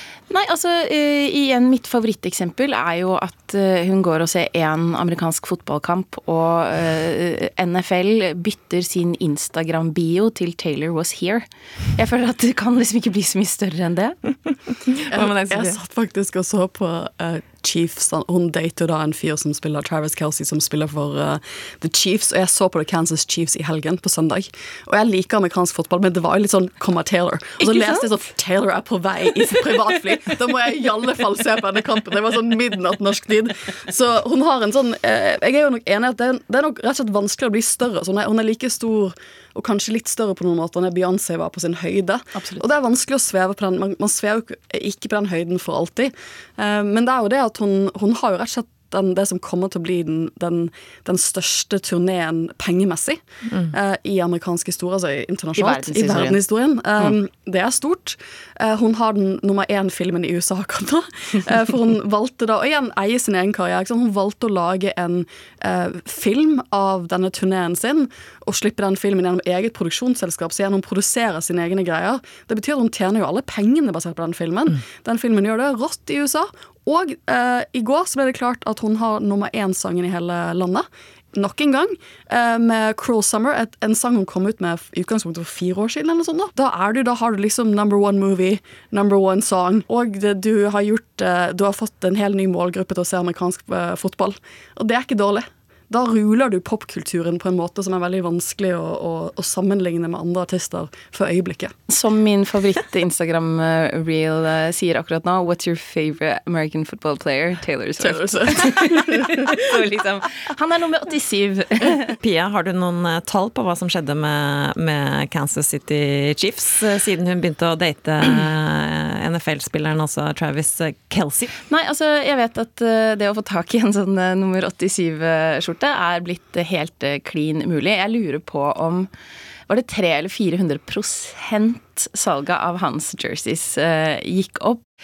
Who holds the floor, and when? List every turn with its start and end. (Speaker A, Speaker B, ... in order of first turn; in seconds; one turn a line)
Speaker A: 0.3-14.2
Speaker B: 15.1-15.8
Speaker C: 15.1-53.2
Speaker A: 42.3-42.6
Speaker C: 53.7-101.7
Speaker A: 55.6-56.4
Speaker A: 101.9-112.1
Speaker C: 108.0-109.1
Speaker B: 112.2-121.5
Speaker A: 121.7-129.1
Speaker A: 129.7-134.8